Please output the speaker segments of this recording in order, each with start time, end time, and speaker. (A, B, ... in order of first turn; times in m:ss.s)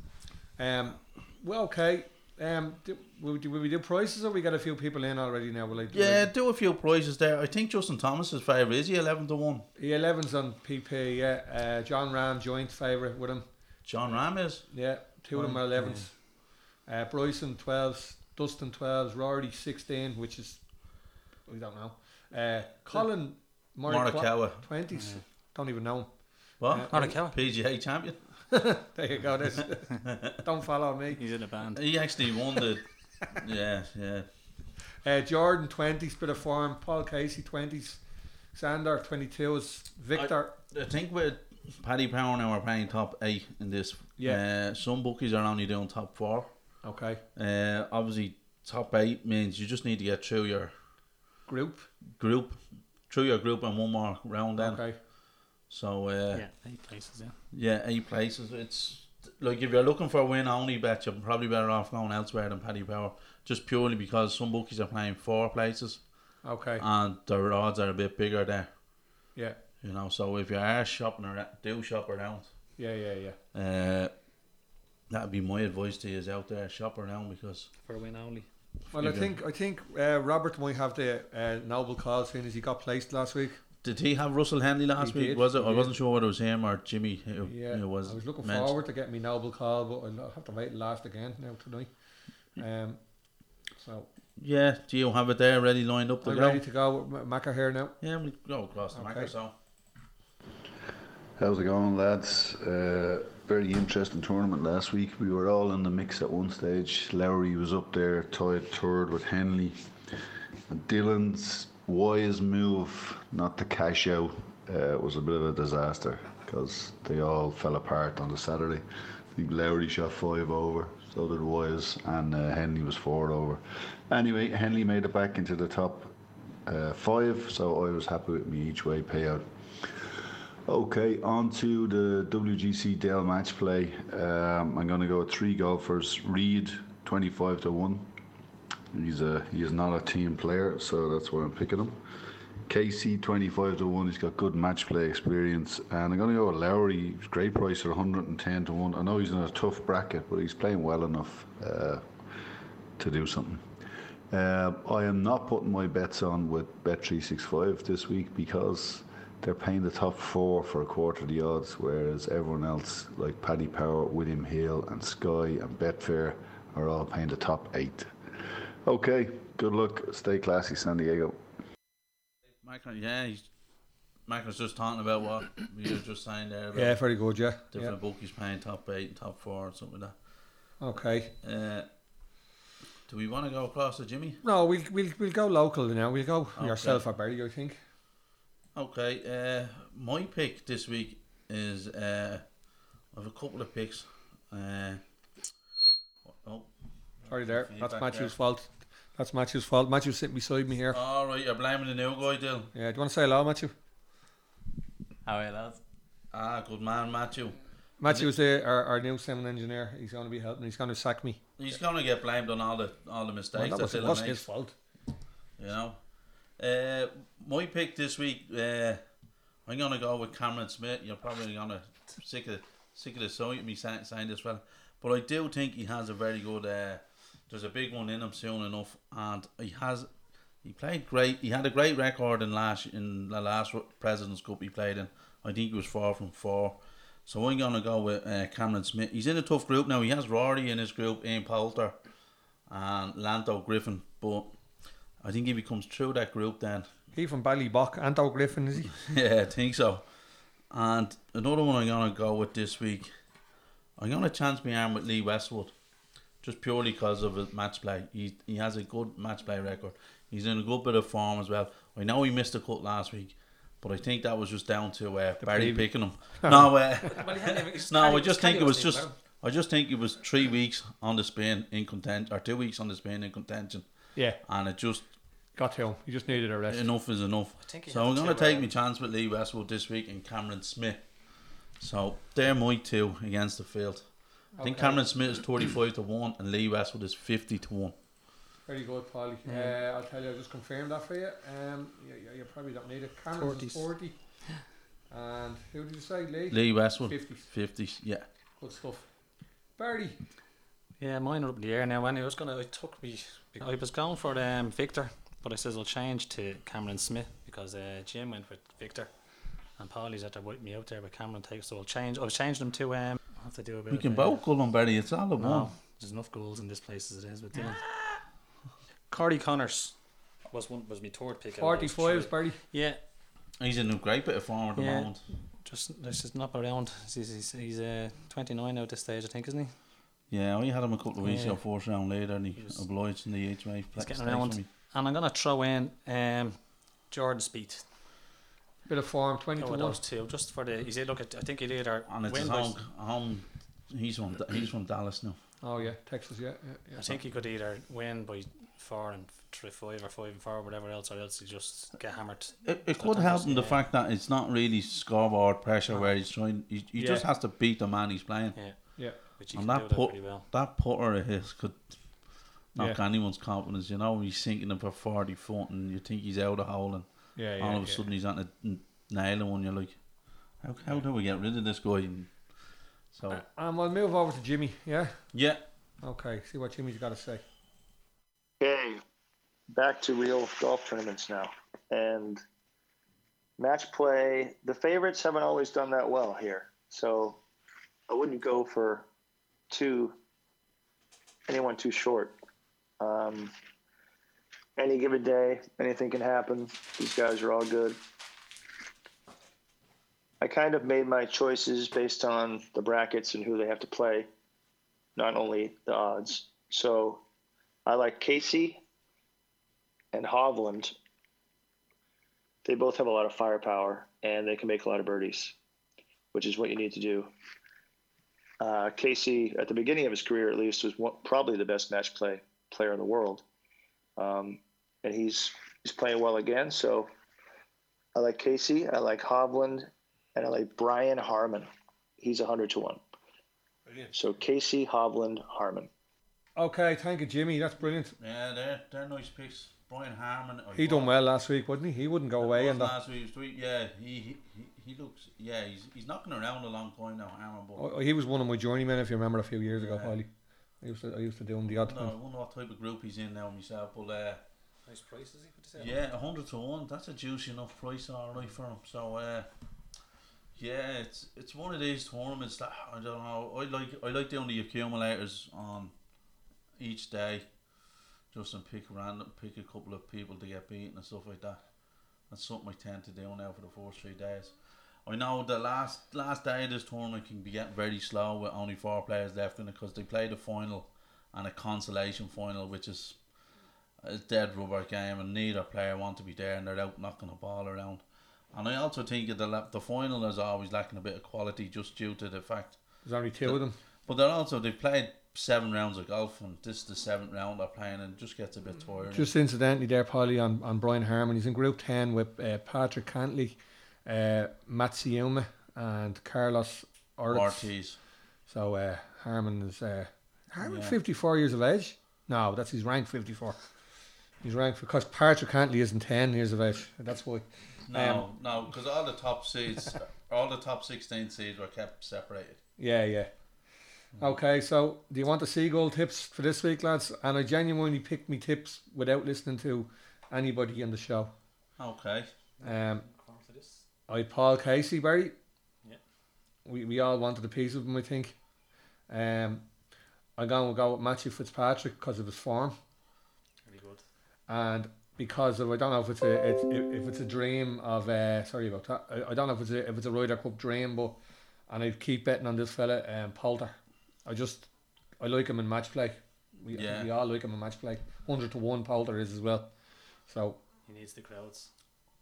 0:00.6-0:06.3 A
0:05.9-0:09.6 B
0:09.8-0:13.4 A
0:13.8-0:14.6 B
0:14.7-0:16.2 A
0:15.3-0:16.1 C
0:16.8-0:27.1 A
0:23.9-0:24.6 B
0:24.9-0:25.2 C
0:26.6-0:28.2 B
0:26.9-0:27.4 C
0:28.5-0:31.2 A
0:31.2-0:31.8 C
0:31.7-0:34.2 B
0:35.0-0:38.0 A
0:38.5-0:40.5 A
0:40.1-0:46.5 B
0:46.8-0:47.2 A
0:47.3-0:50.7 B
0:51.5-0:51.9 A
0:52.2-0:54.9 B
0:54.6-0:55.0 A
0:55.7-0:56.4 B
0:56.3-0:57.4 C
0:57.5-1:06.0 B
1:06.4-1:06.8 A
1:06.8-1:08.7 B
1:09.8-1:12.5 B
1:12.8-1:13.4 A
1:13.5-1:14.1 B
1:15.1-1:17.7 B
1:17.8-1:18.5 C
1:18.9-1:19.3 B
1:18.9-1:23.6 A
1:23.8-1:28.7 B
1:25.0-1:25.9 A
1:27.4-1:31.9 A
1:32.6-1:33.0 A
1:33.8-1:34.1 A
1:34.4-1:36.6 B
1:36.2-1:38.0 A
1:38.0-1:39.5 B
1:38.9-1:39.3 A
1:41.4-1:49.8 D
1:50.7-2:06.1 D
2:06.6-2:09.4 D
2:10.6-2:18.1 D
2:18.9-2:22.0 D
2:22.7-2:32.1 D
2:33.0-2:33.7 D
2:34.3-2:48.1 D
2:48.8-2:51.4 D
2:52.6-2:53.5 B
2:54.3-2:57.0 B
2:56.7-2:57.9 A
2:57.7-3:00.1 B
3:00.8-3:01.3 A
3:01.4-3:01.9 B
3:03.1-3:04.4 B
3:04.4-3:07.8 A
3:06.6-3:07.0 B
3:08.7-3:12.4 B
3:13.1-3:15.0 B
3:16.3-3:16.7 B
3:17.2-3:18.3 B
3:17.3-3:21.0 A
3:20.9-3:22.7 B
3:22.7-3:23.7 A
3:25.2-3:25.8 B
3:26.3-3:28.3 B
3:28.0-3:31.4 A
3:31.6-3:34.4 B
3:33.5-3:34.7 A
3:35.6-3:36.0 B
3:36.6-3:39.0 B
3:39.6-3:50.1 B
3:50.6-4:02.0 B
4:02.7-4:04.5 B
4:05.2-4:06.9 B
4:07.1-4:08.9 A
4:08.9-4:10.0 B
4:10.7-4:13.1 B
4:14.0-4:15.7 B
4:16.4-4:33.8 B
4:25.4-4:26.7 A
4:27.0-4:29.1 C
4:34.4-4:35.0 B
4:35.6-4:36.9 A
4:36.7-4:41.0 B
4:37.6-4:38.7 C
4:41.8-4:44.1 B
4:44.6-4:45.0 A
4:44.6-4:47.9 B
4:48.7-4:54.2 A
4:49.4-4:49.8 C
4:53.4-4:53.9 C
4:55.1-4:57.5 A
4:56.5-4:58.2 B
4:58.6-4:59.1 A
4:59.8-5:00.2 A
5:01.0-5:09.1 C
5:09.8-5:14.4 C
5:13.9-5:15.7 B
5:15.4-5:17.8 C
5:19.1-5:19.9 C
5:20.5-5:23.0 C
5:21.6-5:22.6 A
5:23.6-5:25.2 B
5:24.7-5:29.7 C
5:30.3-5:34.7 B
5:31.2-5:31.6 C
5:32.6-5:32.8 C
5:34.0-5:37.8 C
5:38.9-5:40.0 A
5:39.6-5:42.8 C
5:42.1-5:45.4 B
5:45.6-5:47.2 A
5:47.0-5:53.8 C
5:52.6-5:59.0 B
5:57.0-5:57.2 A
5:58.5-6:00.5 C
5:59.5-6:01.8 B
6:02.7-6:07.1 B
6:07.4-6:08.0 A
6:07.6-6:10.0 B
6:10.6-6:12.4 B
6:13.1-6:13.4 B
6:13.3-6:15.2 A
6:15.3-6:15.6 B
6:16.0-6:17.4 A
6:18.6-6:19.0 E
6:19.7-6:22.4 E
6:23.6-6:27.4 E
6:28.1-6:29.1 E
6:29.7-6:30.1 E
6:31.5-6:32.4 E
6:33.0-6:33.5 E
6:34.8-6:38.0 E
6:40.4-6:44.3 E
6:45.2-6:47.2 E
6:47.8-6:48.8 E
6:50.1-6:50.9 E
6:52.6-6:55.5 E
6:56.3-6:57.3 E
6:58.6-7:03.4 E
7:04.2-7:07.1 E
7:08.1-7:11.7 E
7:12.2-7:13.0 E
7:14.1-7:15.9 E
7:16.6-7:18.1 A
7:18.2-7:21.1 B
7:20.7-7:22.9 A
7:22.4-7:27.8 B
7:27.8-7:30.3 A
7:29.7-7:30.1 B
7:30.8-7:32.1 A
7:31.7-7:34.4 B
7:34.8-7:36.0 C
7:35.8-7:39.5 B
7:40.6-7:45.9 B
7:46.8-7:47.4 B
7:48.3-7:51.6 B
7:52.3-7:54.5 B
7:55.0-8:03.2 B
8:04.0-8:08.0 B
8:08.5-8:12.8 B
8:13.0-8:13.8 A
8:13.4-8:19.3 B
8:19.1-8:27.7 A
8:27.3-8:28.0 B
8:28.5-8:33.6 A
8:30.6-8:31.0 B
8:34.4-8:38.2 A
8:37.9-8:42.6 B
8:42.8-8:43.3 A
8:44.2-8:51.3 A
8:51.8-8:52.3 B
8:52.6-8:53.8 C
8:52.6-8:53.0 A
8:54.1-8:55.3 A
8:56.6-8:58.3 A
8:59.1-8:59.6 A
9:00.4-9:02.8 A
9:03.6-9:04.0 C
9:04.5-9:11.2 A
9:11.7-9:14.7 A
9:15.2-9:19.7 A
9:16.7-9:17.1 B
9:20.3-9:20.6 A
9:20.8-9:21.7 C